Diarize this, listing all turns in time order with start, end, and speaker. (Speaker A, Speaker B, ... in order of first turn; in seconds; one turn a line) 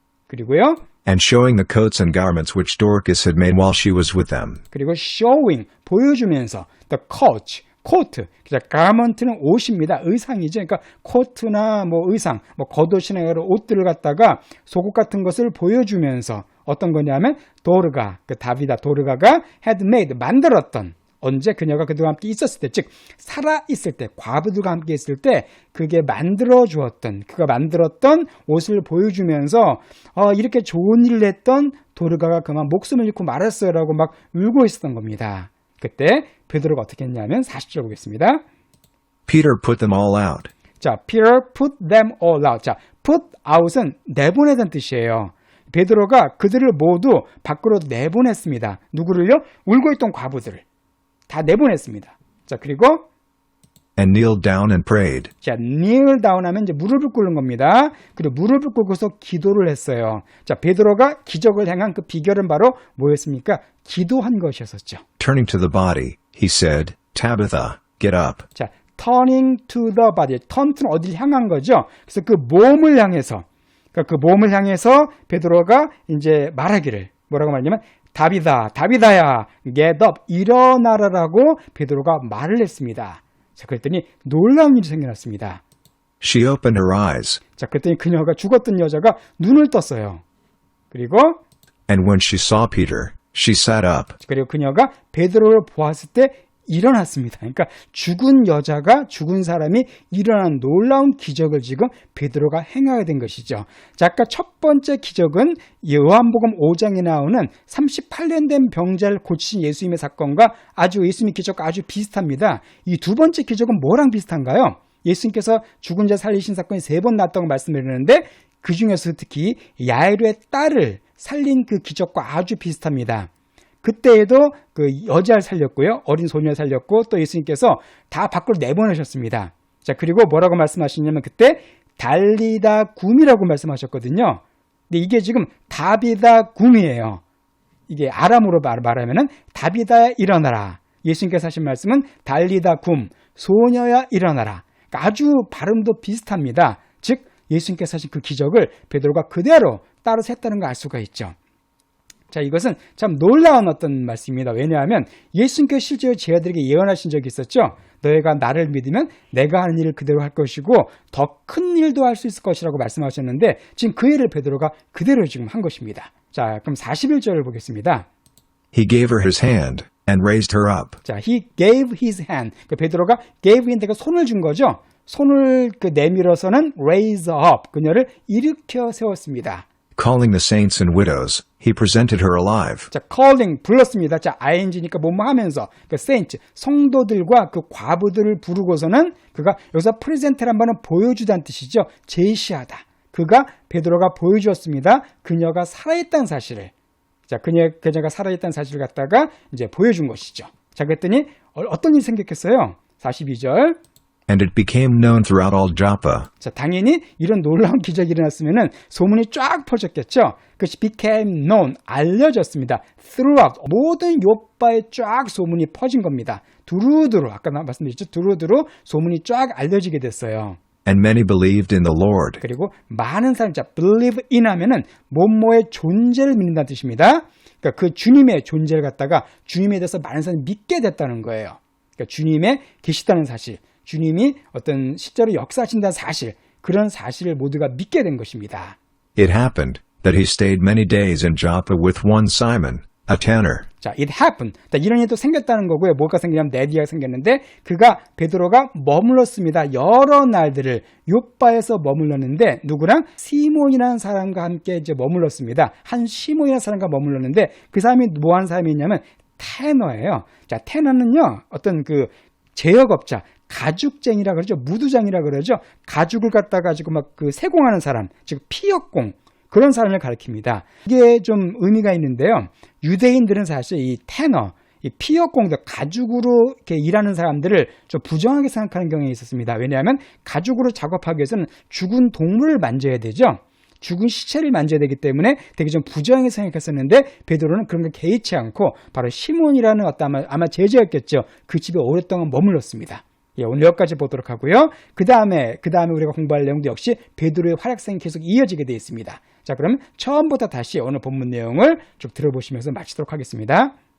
Speaker A: 0.3-0.8
Speaker B: 1.1-4.6
Speaker A: 4.7-38.4
Speaker B: 39.3-40.5
Speaker A: 40.8-50.6
Speaker A: 51.3-53.1
Speaker B: 54.0-55.3
Speaker A: 55.4-65.0
Speaker B: 65.2-68.5
Speaker A: 68.5-85.6
Speaker B: 86.2-87.4
Speaker A: 87.6-90.2
Speaker A: 90.9-91.4
Speaker B: 91.9-94.2
Speaker A: 94.2-123.3
Speaker A: 123.8-137.2
Speaker A: 137.9-151.3
Speaker A: 152.3-168.1
Speaker B: 168.7-171.0
Speaker A: 171.0-179.7
Speaker B: 180.0-182.9
Speaker A: 182.9-196.7
Speaker A: 197.3-203.8
Speaker B: 204.3-206.3
Speaker A: 206.4-220.6
Speaker B: 220.8-222.4
Speaker A: 222.4-238.8
Speaker B: 239.2-243.7
Speaker A: 243.8-303.7